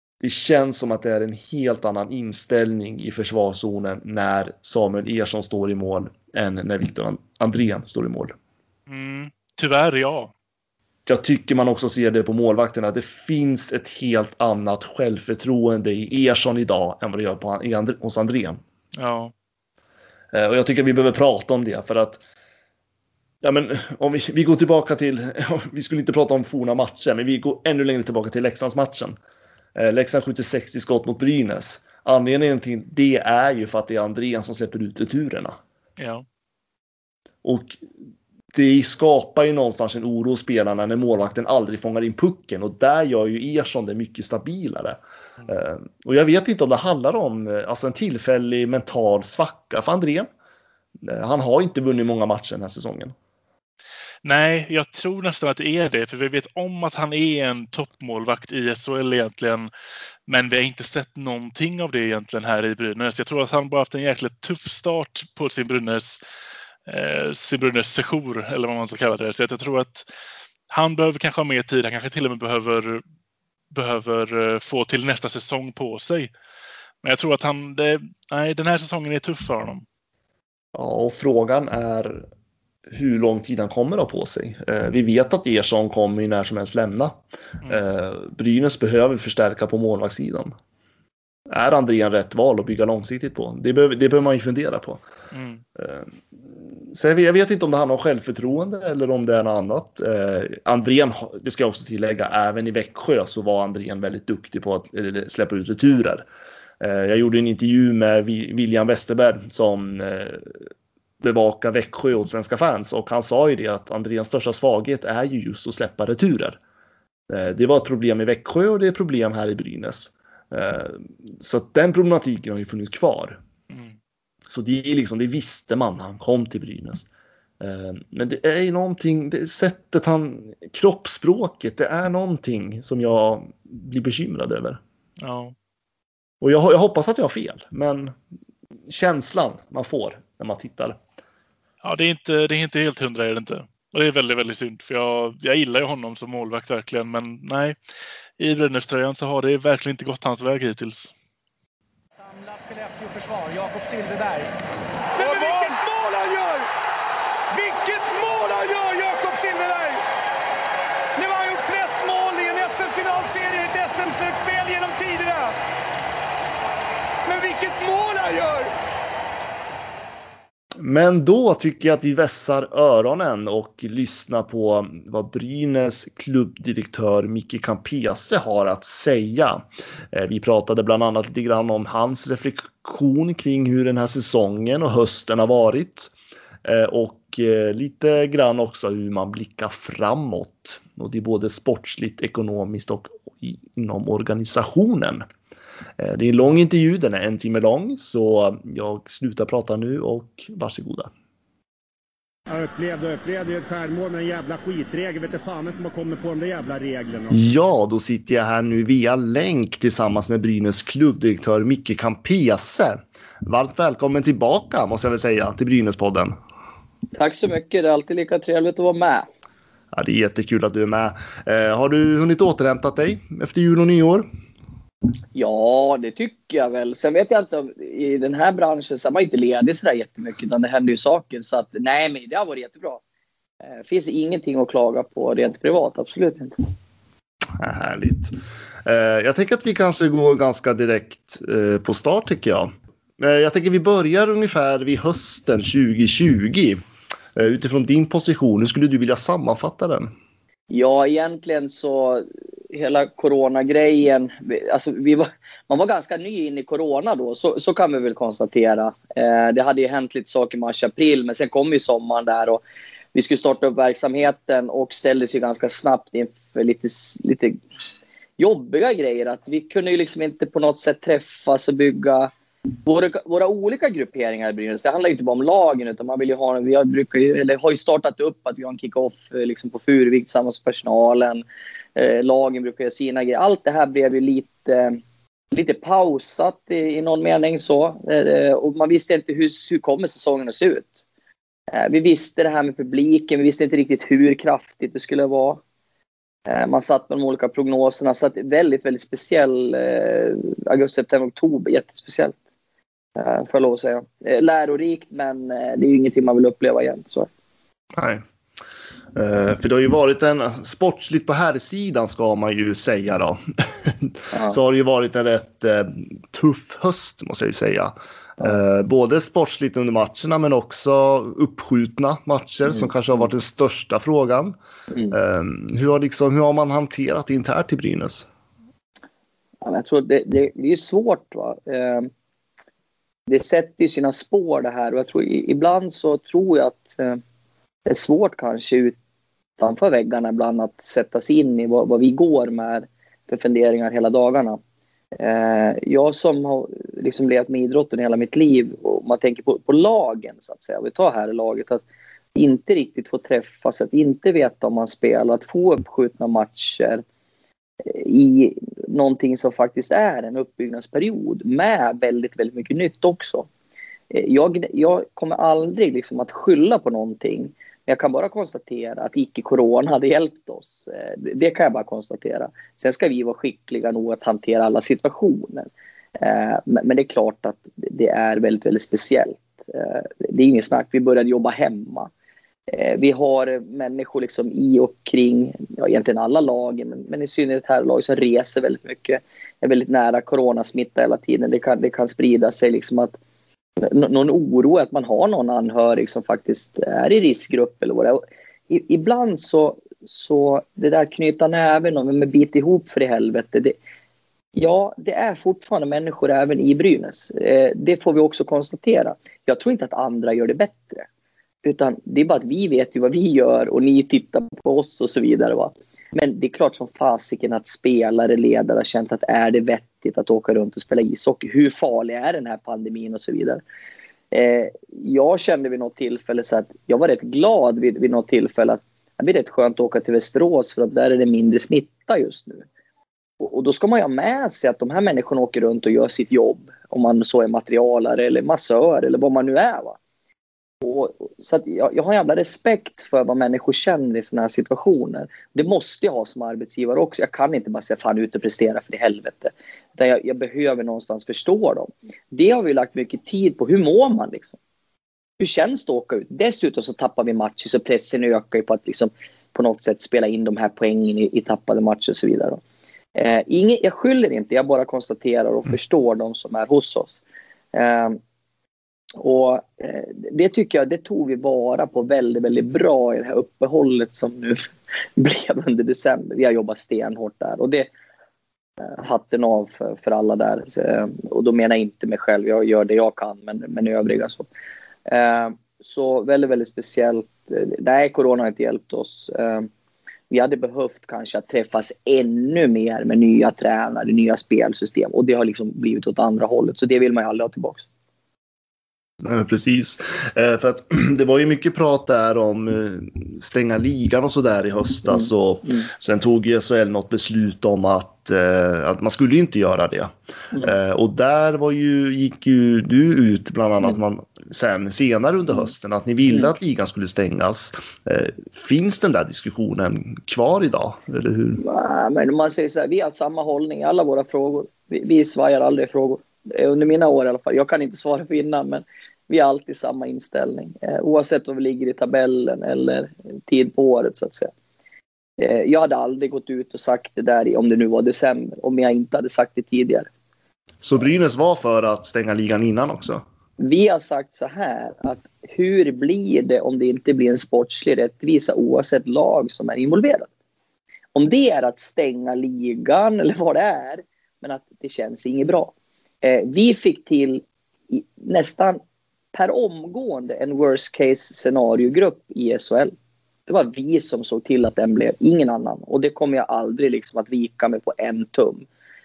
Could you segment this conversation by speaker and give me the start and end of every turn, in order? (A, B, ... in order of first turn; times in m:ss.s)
0:00.2-0:08.4 A
0:08.9-0:10.3 B
0:11.1-0:18.6 A
0:19.0-0:19.3 B
0:20.3-0:22.2 A
0:23.4-0:29.2 A
0:29.8-0:35.6 A
0:36.0-0:36.2 B
0:37.4-0:37.8 A
0:38.5-0:45.0 A
0:45.5-0:50.3 A
0:51.0-0:53.2 A
0:54.2-0:59.7 B
1:00.3-1:06.2 B
1:06.9-1:10.1 B
1:10.7-1:13.0 B
1:13.7-1:16.3 B
1:17.0-1:19.8 B
1:20.7-1:22.3 A
1:22.9-1:30.5 A
1:31.5-1:35.0 A
1:35.3-1:35.6 B
1:35.8-1:46.2 A
1:46.8-1:50.5 A
1:51.2-1:56.6 A
1:57.3-2:03.4 A
2:03.7-2:04.0 B
2:04.5-2:07.1 A
2:07.6-2:14.8 A
2:15.2-2:15.6 B
2:16.4-2:18.2 A
2:18.9-2:21.0 A
2:21.8-2:27.8 B
2:28.4-2:31.1 B
2:32.2-2:34.5 C
2:35.1-2:36.7 C
2:37.5-2:40.0 C
2:41.2-2:45.6 C
2:47.2-2:48.7 C
2:50.8-3:06.1 A
3:06.6-3:15.2 A
3:16.0-3:21.1 A
3:22.5-3:27.4 D
3:27.3-3:36.4 A
3:37.1-3:39.3 E
3:39.9-3:44.3 A
3:45.4-3:53.0 E
3:53.7-3:56.6 E
3:57.6-3:58.3 A
3:58.8-4:06.8 A
4:07.4-4:10.1 A
4:10.7-4:22.6 E
4:23.1-4:27.6 E
4:28.4-4:32.3 E
4:32.8-4:45.0 E
4:45.5-4:50.9 E
4:51.7-4:55.6 E
4:56.5-5:02.4 E
5:03.2-5:07.3 E
5:08.0-5:08.2 A
5:09.2-5:24.6 A
5:14.3-5:14.6 E
5:22.7-5:22.9 E
5:25.1-5:28.3 A
5:29.6-5:32.1 E
5:33.3-5:37.2 E
5:37.9-5:39.0 E
5:39.6-5:44.6 E
5:45.2-5:51.8 E
5:52.4-5:57.0 E
5:57.8-6:03.5 E
6:04.1-6:22.1 E
6:22.7-6:33.2 E
6:33.8-6:43.8 E
6:44.6-6:51.1 E
6:51.6-7:03.6 E
7:04.3-7:12.7 E
7:13.4-7:20.0 E
7:20.8-7:34.6 E
7:35.4-7:42.6 E
7:43.2-7:47.2 E
7:47.7-7:48.2 E
7:49.2-7:57.9 E
7:58.8-8:04.5 E
8:05.1-8:09.7 E
8:10.3-8:17.9 E
8:19.2-8:41.6 A
8:25.1-8:25.9 E
8:41.6-8:54.5 E
8:55.4-9:00.1 E
9:00.8-9:03.2 A
9:03.6-9:10.3 E
9:11.2-9:18.8 E
9:19.3-9:22.9 E
9:23.5-9:28.7 E